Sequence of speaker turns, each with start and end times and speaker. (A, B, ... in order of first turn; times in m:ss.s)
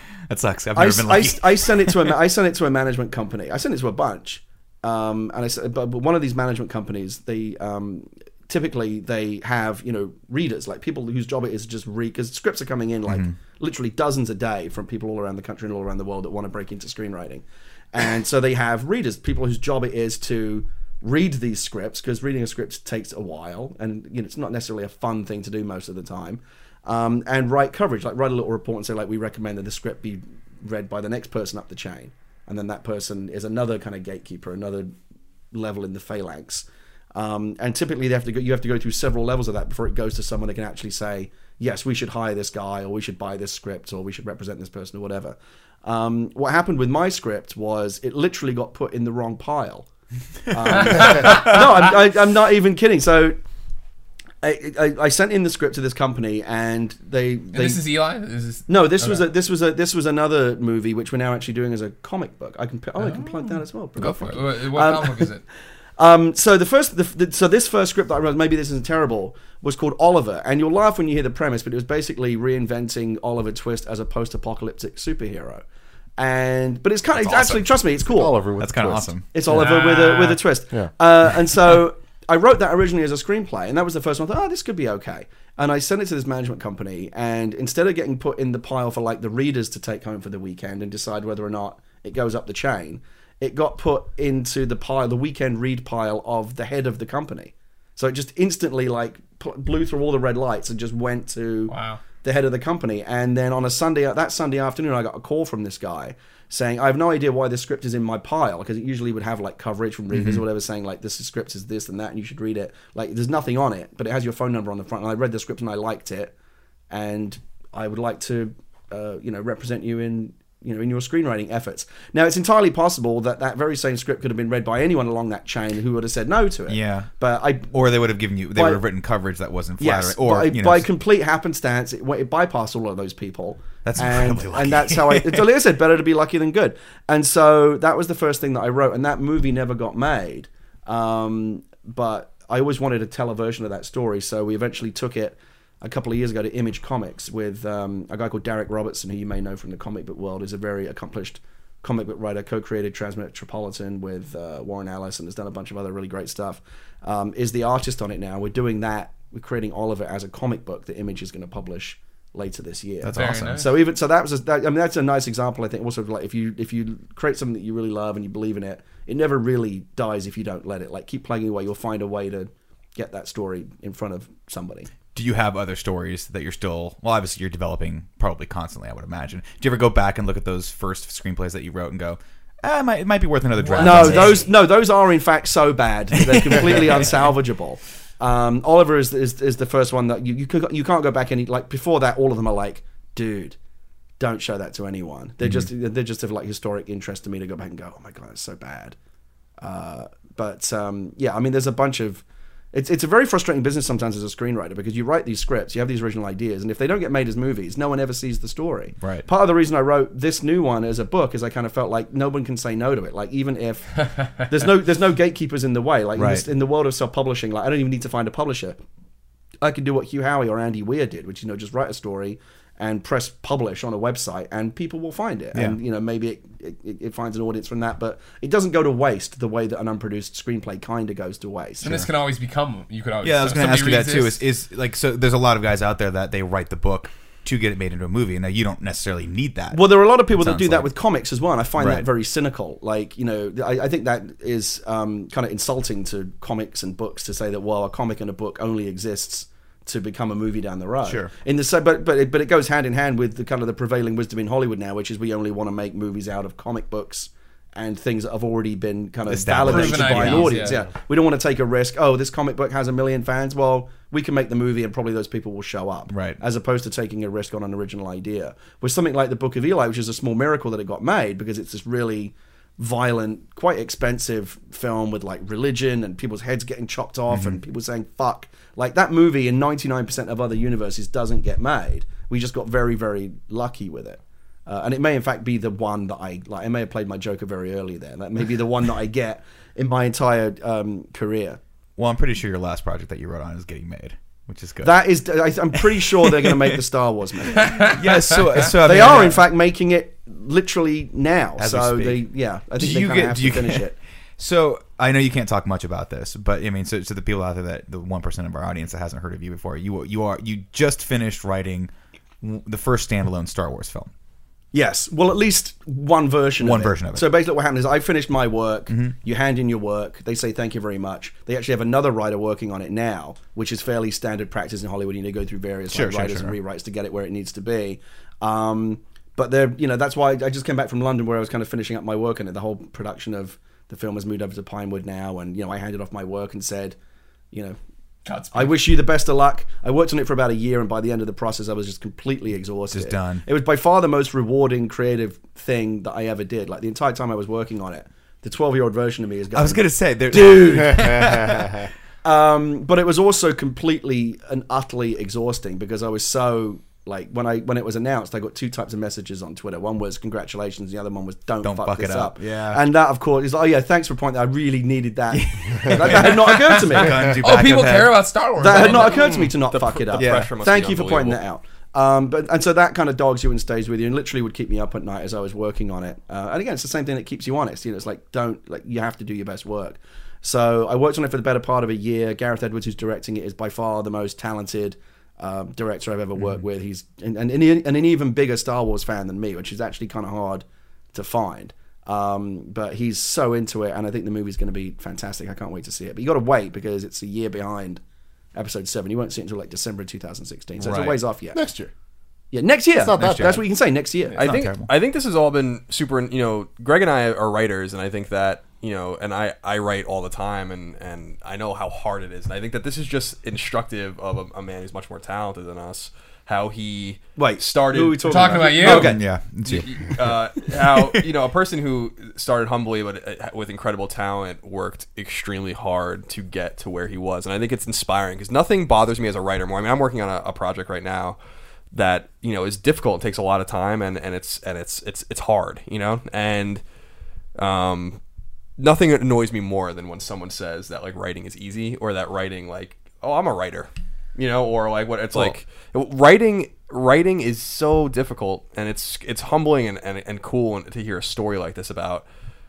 0:00.3-0:02.1 A
0:00.8-0:34.9 B
0:35.5-0:49.9 B
0:50.5-0:53.4 B
0:50.8-0:51.6 C
0:54.4-0:57.8 B
0:57.5-0:59.2 C
0:58.7-1:05.3 B
1:03.0-1:05.4 C
1:06.0-1:15.6 B
1:16.2-1:18.4 B
1:17.1-1:17.7 A
1:18.1-1:19.2 D
1:18.6-1:19.2 A
1:19.3-1:56.3 B
1:19.5-1:20.4 C
1:41.7-1:42.0 C
1:50.1-1:50.4 A
1:56.9-2:07.7 B
2:06.7-2:07.1 A
2:07.7-2:10.9 A
2:08.5-2:08.8 B
2:09.8-2:54.9 B
2:13.8-2:15.5 A
2:43.0-2:43.6 A
2:43.1-2:43.7 C
2:55.1-3:04.4 A
3:03.6-3:04.4 C
3:03.8-3:13.6 B
3:06.2-3:06.9 A
3:14.2-3:19.0 B
3:19.6-3:38.8 B
3:29.0-3:29.3 A
3:36.2-3:36.4 A
3:39.6-3:52.1 B
3:51.8-3:54.4 C
3:53.2-4:00.9 A
3:59.7-4:51.6 B
4:01.8-4:02.1 A
4:11.0-4:11.3 A
4:19.2-4:20.7 A
4:19.6-4:20.8 C
4:26.1-4:26.4 A
4:37.3-4:37.6 A
4:52.0-4:55.0 A
4:54.8-5:03.9 B
4:55.8-4:56.8 A
4:57.6-4:59.4 A
5:01.6-5:02.2 A
5:02.8-5:11.9 A
5:12.4-5:14.1 A
5:14.7-5:37.0 B
5:16.6-5:17.3 A
5:25.9-5:26.6 A
5:37.5-5:37.8 B
5:38.2-5:38.8 C
5:38.5-5:51.6 B
5:42.9-5:43.4 A
5:49.5-5:51.8 A
5:51.0-5:51.7 D
5:52.2-6:07.3 B
6:01.6-6:02.8 A
6:05.3-6:08.2 A
6:07.3-6:09.3 C
6:08.6-6:38.0 B
6:08.7-6:11.4 E
6:10.1-6:10.5 A
6:26.4-6:26.6 A
6:38.5-6:41.6 B
6:40.8-6:41.2 A
6:41.5-6:41.9 D
6:42.5-6:44.4 B
6:42.9-6:43.7 D
6:44.4-6:59.0 E
6:44.4-6:44.9 A
6:57.4-6:59.2 B
6:58.2-6:59.2 C
6:58.8-7:00.4 A
6:59.6-7:11.4 E
7:11.9-7:16.8 E
7:17.6-7:18.2 E
7:18.8-7:32.2 E